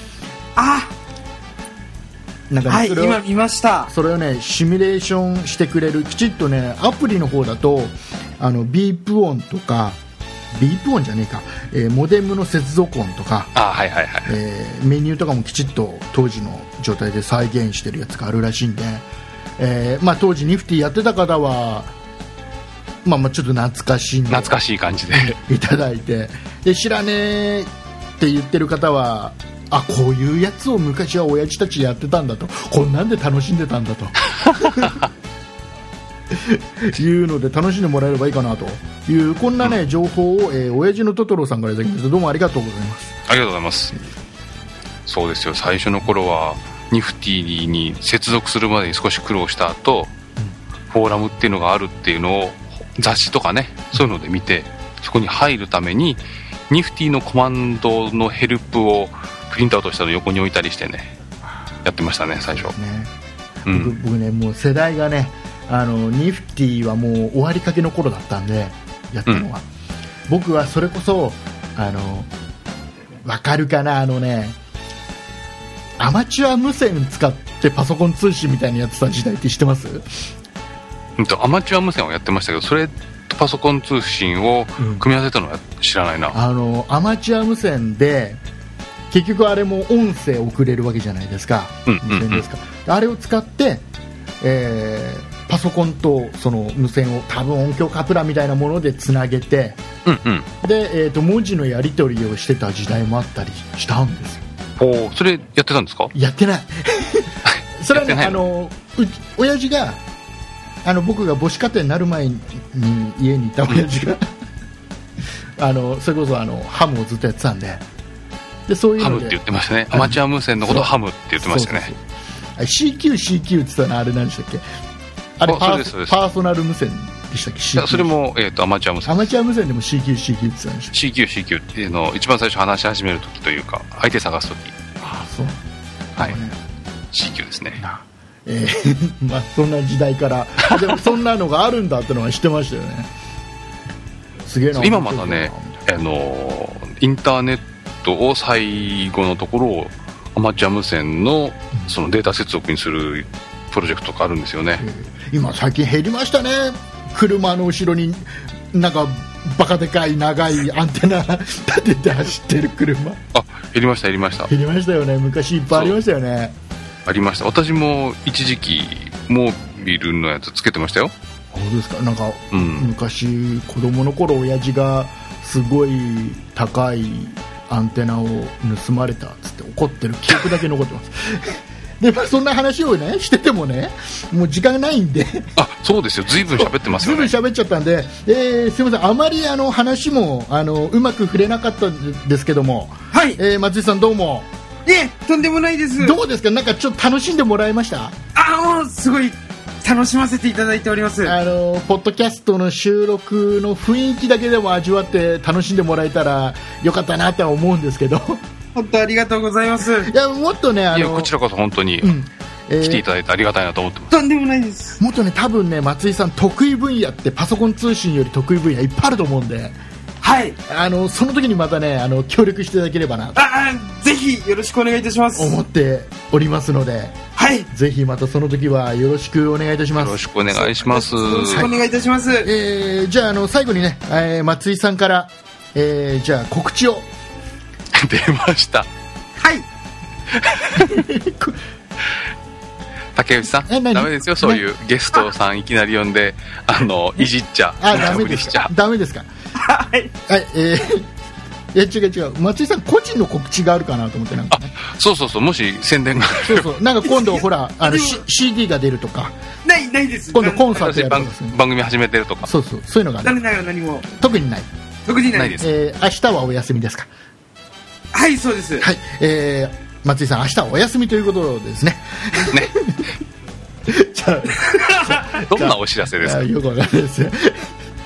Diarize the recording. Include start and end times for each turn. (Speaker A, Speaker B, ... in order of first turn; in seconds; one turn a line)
Speaker A: 0.6-0.9
Speaker B: 2.5-3.2
Speaker A: 2.7-3.9
Speaker B: 3.9-10.0
Speaker B: 10.5-13.5
Speaker C: 13.6-14.3
Speaker B: 14.3-19.1
Speaker B: 19.6-21.9
Speaker B: 23.0-24.6
Speaker C: 24.3-25.4
Speaker B: 25.1-35.0
Speaker B: 36.3-43.2
Speaker C: 43.3-44.0
Speaker C: 45.1-50.1
Speaker C: 50.9-61.1
Speaker B: 61.5-61.7
Speaker C: 61.9-62.7
Speaker B: 62.5-63.1
Speaker B: 63.6-69.7
Speaker C: 63.7-63.9
Speaker B: 70.3-72.3
Speaker B: 73.2-74.6
Speaker B: 76.0-80.1
Speaker C: 81.2-86.4
Speaker B: 84.8-85.0
Speaker B: 86.3-88.4
Speaker B: 89.1-93.9
Speaker C: 91.9-92.4
Speaker B: 94.4-99.8
Speaker C: 100.1-100.5
Speaker B: 100.6-104.5
Speaker C: 104.8-106.1
Speaker B: 106.1-110.0
Speaker C: 107.5-108.5
Speaker B: 110.8-114.3
Speaker B: 115.6-117.8
Speaker B: 118.7-119.4
Speaker C: 119.0-121.9
Speaker B: 119.9-122.0
Speaker B: 122.6-124.7
Speaker B: 125.4-128.1
Speaker C: 125.5-126.2
Speaker C: 127.8-129.3
Speaker B: 129.1-131.0
Speaker C: 130.9-134.8
Speaker B: 135.0-135.6
Speaker B: 136.2-136.6
Speaker C: 137.1-137.8
Speaker B: 137.8-143.1
Speaker B: 144.4-145.8
Speaker C: 144.8-154.8
Speaker B: 154.8-163.2
Speaker C: 163.3-164.5
Speaker B: 164.4-166.6
Speaker C: 167.1-171.1
Speaker B: 171.5-185.5
Speaker C: 172.5-172.9
Speaker C: 185.6-187.3
Speaker B: 186.4-194.5
Speaker A: 193.1-193.4
Speaker A: 194.9-196.2
Speaker B: 196.0-198.2
Speaker A: 198.3-201.4
Speaker B: 201.2-208.4
Speaker A: 208.8-210.1
Speaker B: 210.0-211.3
Speaker C: 210.9-212.2
Speaker B: 212.0-213.1
Speaker C: 212.8-214.1
Speaker A: 214.1-215.0
Speaker B: 215.0-219.8
Speaker A: 220.2-220.6
Speaker B: 220.7-223.4
Speaker A: 223.3-225.6
Speaker B: 225.3-227.2
Speaker A: 227.4-227.7
Speaker B: 227.7-230.2
Speaker C: 230.0-231.7
Speaker A: 230.6-232.5
Speaker B: 232.4-237.1
Speaker C: 237.9-238.9
Speaker A: 239.4-239.7
Speaker C: 240.4-241.0
Speaker B: 240.8-241.6
Speaker C: 243.2-248.7
Speaker B: 243.7-244.6
Speaker B: 247.8-249.3
Speaker A: 249.6-250.1
Speaker B: 250.3-251.1
Speaker B: 251.7-254.7
Speaker C: 254.5-256.7
Speaker B: 256.4-259.4
Speaker A: 257.0-258.2
Speaker A: 259.6-260.8
Speaker B: 260.3-261.6
Speaker C: 260.7-262.5
Speaker B: 262.4-263.4
Speaker A: 263.2-264.1
Speaker B: 264.1-264.7
Speaker A: 265.1-265.6
Speaker C: 265.4-265.7
Speaker B: 265.6-267.1
Speaker A: 268.1-268.9
Speaker B: 268.8-273.1
Speaker C: 272.5-272.7
Speaker B: 273.9-277.7
Speaker C: 275.4-276.5